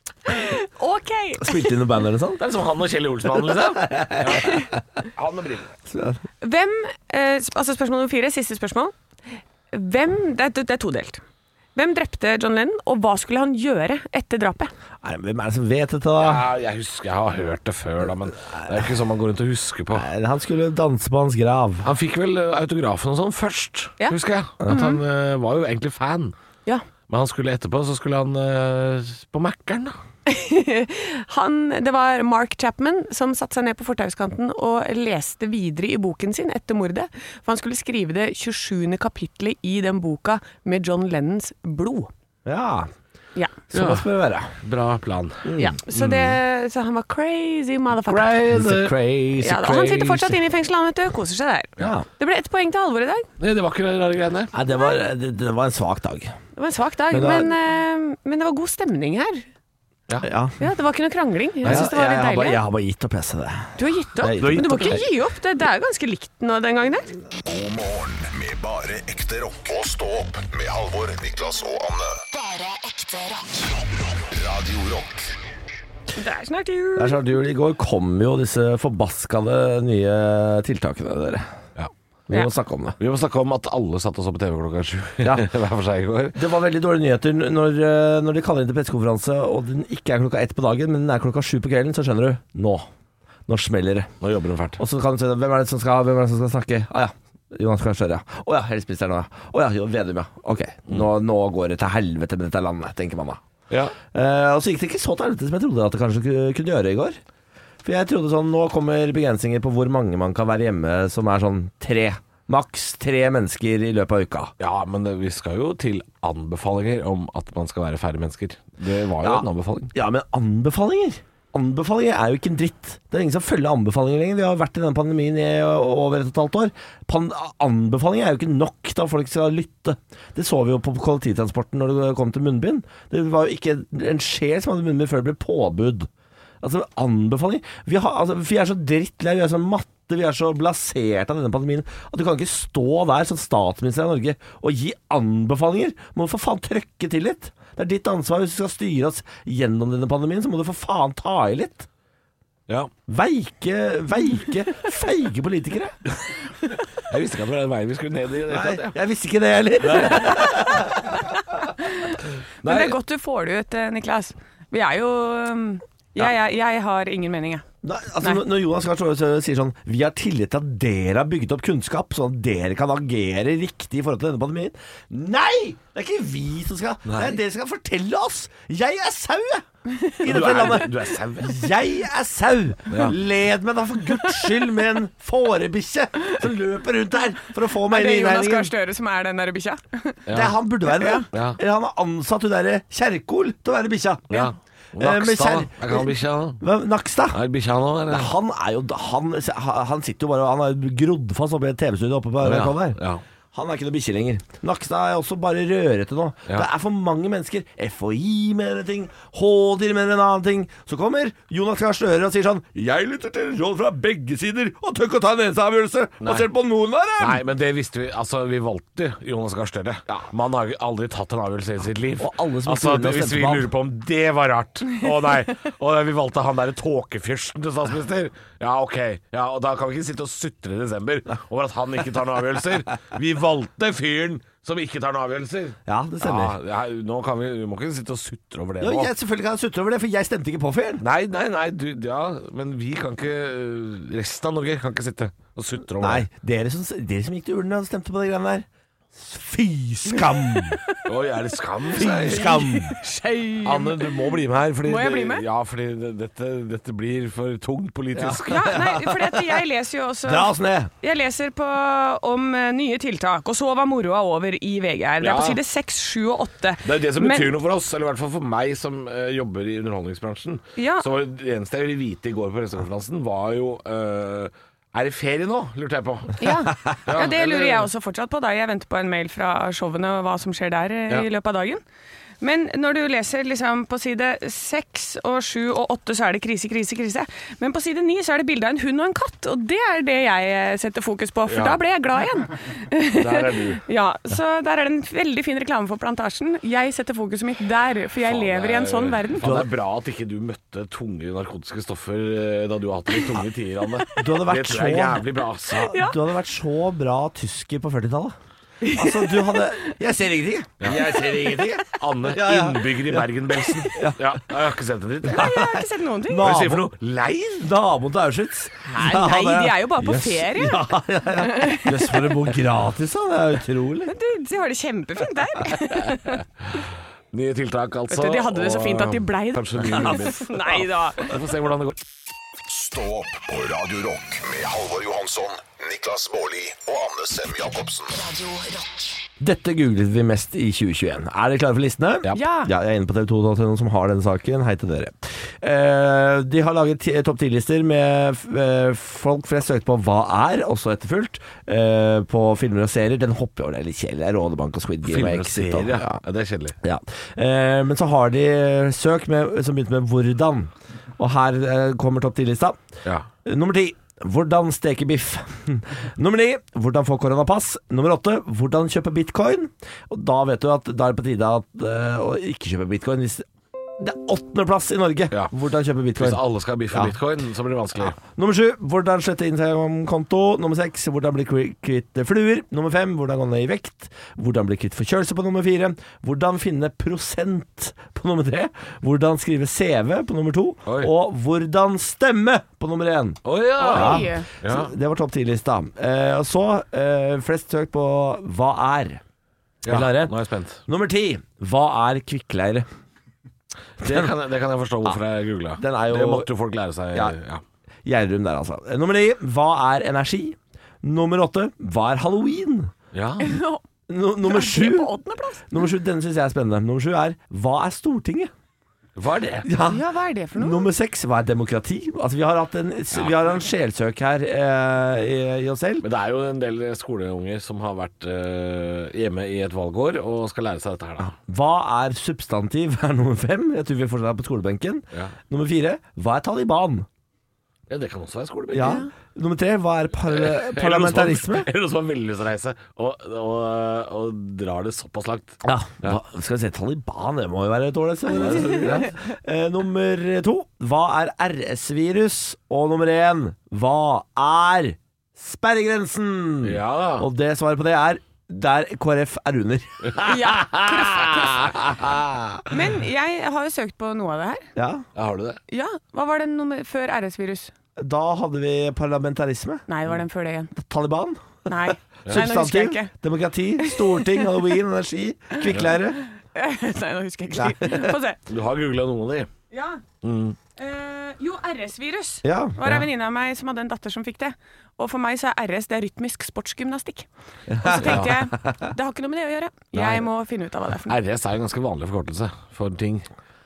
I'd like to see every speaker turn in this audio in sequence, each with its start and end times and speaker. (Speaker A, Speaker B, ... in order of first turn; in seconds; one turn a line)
Speaker A: 0.2-1.8
Speaker B: 1.4-2.5
Speaker C: 2.4-5.7
Speaker B: 3.5-4.6
Speaker B: 5.9-6.2
Speaker A: 6.4-8.9
Speaker A: 9.7-11.2
Speaker A: 11.8-14.7
Speaker B: 15.0-16.5
Speaker C: 16.2-20.1
Speaker B: 18.5-18.9
Speaker B: 19.9-21.9
Speaker C: 21.8-26.3
Speaker A: 24.0-25.0
Speaker C: 27.1-30.0
Speaker A: 30.3-42.1
Speaker B: 42.5-42.9
Speaker B: 43.7-44.5
Speaker C: 43.7-44.1
Speaker C: 44.6-46.4
Speaker B: 45.5-45.8
Speaker A: 45.6-48.4
Speaker C: 48.1-50.3
Speaker B: 48.5-49.6
Speaker A: 49.4-53.3
Speaker B: 51.8-52.1
Speaker C: 53.4-54.5
Speaker B: 54.5-56.4
Speaker A: 56.6-59.5
Speaker B: 57.1-57.5
Speaker B: 60.2-60.6
Speaker A: 60.6-62.6
Speaker B: 61.6-65.0
Speaker A: 63.8-67.2
Speaker C: 64.4-65.0
Speaker D: 67.5-72.2
Speaker E: 72.3-74.0
Speaker D: 74.3-75.3
Speaker A: 76.2-77.2
Speaker B: 77.0-81.6
Speaker B: 82.3-83.0
Speaker C: 83.0-86.4
Speaker B: 85.2-85.5
Speaker B: 86.3-92.9
Speaker B: 93.5-94.1
Speaker C: 94.2-94.8
Speaker B: 94.8-103.4
Speaker C: 103.7-104.0
Speaker B: 104.1-107.2
Speaker B: 107.8-114.5
Speaker C: 114.6-119.9
Speaker B: 119.2-136.1
Speaker B: 136.6-151.9
Speaker B: 153.1-156.0
Speaker C: 157.0-159.0
Speaker B: 158.5-161.2
Speaker C: 159.8-160.4
Speaker A: 160.3-167.7
Speaker C: 162.6-163.0
Speaker B: 167.8-179.7
Speaker C: 177.1-177.4
Speaker A: 179.9-180.2
Speaker B: 180.2-188.7
Speaker C: 180.2-181.7
Speaker C: 182.9-183.2
Speaker A: 187.9-190.2
Speaker C: 190.3-190.6
Speaker B: 190.3-194.4
Speaker A: 190.9-191.2
Speaker C: 191.3-191.6
Speaker C: 194.3-196.6
Speaker B: 195.0-197.4
Speaker C: 197.3-198.3
Speaker B: 198.1-203.0
Speaker C: 202.4-203.2
Speaker B: 203.5-217.4
Speaker C: 216.2-216.5
Speaker C: 217.2-239.1
Speaker B: 222.2-223.7
Speaker B: 235.9-236.6
Speaker B: 238.8-241.1
Speaker C: 241.0-246.3
Speaker B: 246.0-250.8
Speaker A: 250.1-251.0
Speaker C: 251.0-252.7
Speaker B: 251.9-253.0
Speaker A: 252.0-254.2
Speaker C: 253.6-258.9
Speaker A: 254.8-255.5
Speaker B: 258.1-259.6
Speaker A: 258.5-267.5
Speaker B: 260.3-260.9
Speaker C: 265.2-265.6
Speaker C: 266.8-277.9
Speaker A: 270.8-271.1
Speaker A: 276.4-281.8
Speaker A: 282.4-299.5
Speaker C: 291.5-291.8
Speaker C: 293.1-293.8
Speaker C: 298.2-305.9
Speaker B: 299.4-299.7
Speaker B: 304.2-308.3
Speaker A: 305.8-306.2
Speaker A: 308.8-309.6
Speaker B: 308.9-313.3
Speaker C: 310.8-311.1
Speaker C: 311.8-315.6
Speaker B: 313.9-314.4
Speaker A: 315.3-316.4
Speaker B: 315.3-316.9
Speaker C: 316.4-317.7
Speaker B: 317.6-324.1
Speaker A: 318.8-322.3
Speaker A: 324.1-326.9
Speaker C: 327.3-332.0
Speaker A: 328.1-331.3
Speaker D: 332.7-338.2
Speaker E: 338.1-339.2
Speaker B: 339.4-356.2
Speaker A: 342.3-342.7
Speaker C: 355.1-356.8
Speaker B: 356.8-362.8
Speaker B: 363.4-377.1
Speaker C: 376.2-378.2
Speaker B: 378.0-399.2
Speaker C: 390.9-391.1
Speaker C: 393.4-394.9
Speaker A: 393.8-394.5
Speaker C: 399.8-400.8
Speaker B: 399.9-400.4
Speaker B: 400.9-402.9
Speaker C: 404.0-407.6
Speaker B: 404.0-404.3
Speaker B: 405.8-406.5
Speaker B: 408.1-412.9
Speaker C: 413.1-413.6
Speaker A: 413.4-413.8
Speaker B: 414.1-415.1
Speaker A: 414.4-415.8
Speaker B: 415.7-418.5
Speaker C: 419.2-419.7
Speaker B: 419.6-420.0
Speaker A: 419.8-420.9
Speaker B: 420.6-426.1
Speaker C: 423.1-423.4
Speaker C: 426.0-431.4
Speaker B: 431.2-437.1
Speaker C: 437.9-439.0
Speaker B: 438.7-441.7
Speaker A: 438.8-439.1
Speaker C: 440.3-446.2
Speaker B: 445.6-460.4
Speaker A: 448.3-449.1
Speaker C: 448.4-449.0
Speaker C: 456.6-457.3
Speaker C: 460.0-462.6
Speaker A: 460.2-461.8
Speaker A: 462.7-464.7
Speaker B: 464.8-465.1
Speaker C: 465.2-465.6
Speaker A: 465.7-467.7
Speaker B: 468.0-469.9
Speaker A: 469.9-470.7
Speaker B: 470.8-476.2
Speaker A: 471.7-473.1
Speaker A: 473.8-474.5
Speaker A: 476.5-478.4
Speaker B: 477.5-478.1
Speaker C: 478.5-479.5
Speaker A: 479.7-480.0
Speaker C: 480.2-480.6
Speaker A: 480.8-487.3
Speaker B: 482.4-483.0
Speaker B: 487.7-488.9
Speaker A: 487.8-491.2
Speaker C: 488.0-488.3
Speaker B: 489.9-490.2
Speaker C: 491.1-493.3